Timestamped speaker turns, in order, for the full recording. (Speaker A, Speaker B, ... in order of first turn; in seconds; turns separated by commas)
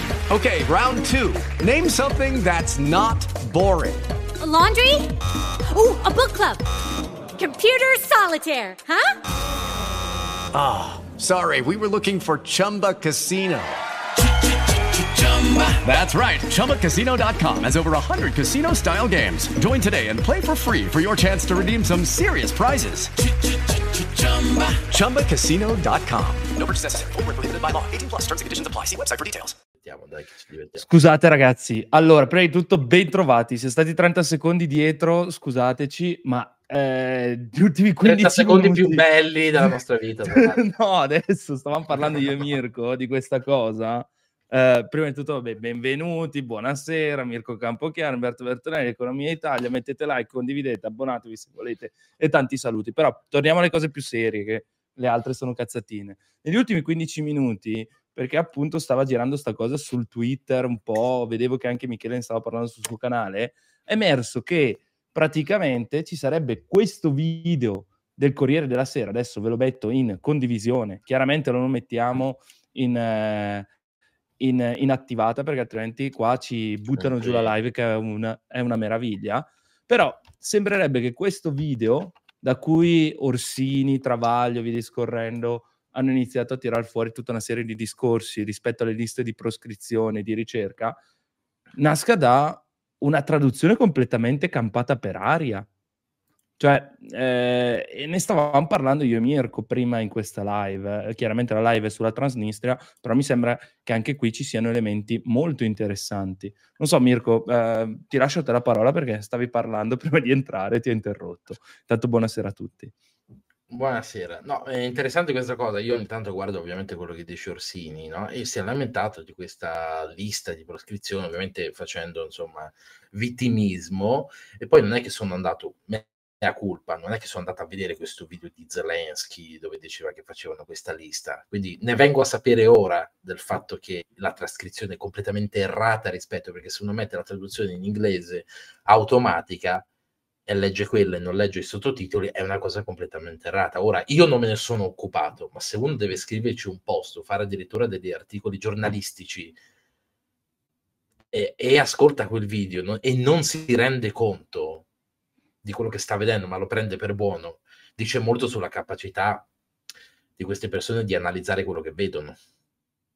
Speaker A: 0.3-4.1, Speaker B: 4.4-5.1, Speaker B: 5.7-6.6, Speaker B: 7.3-9.1, Speaker A: 10.5-13.7, Speaker A: 15.3-23.1, Speaker A: 24.0-26.5, Speaker C: 26.5-29.6, Speaker D: 29.8-30.9, Speaker E: 30.8-39.0, Speaker D: 38.0-40.6, Speaker E: 40.3-73.7, Speaker E: 74.4-91.0, Speaker D: 76.9-77.5, Speaker E: 91.8-95.7, Speaker E: 96.6-112.9, Speaker D: 113.7-139.9, Speaker D: 140.4-149.6, Speaker D: 151.3-154.8, Speaker D: 155.6-159.5, Speaker D: 160.4-162.4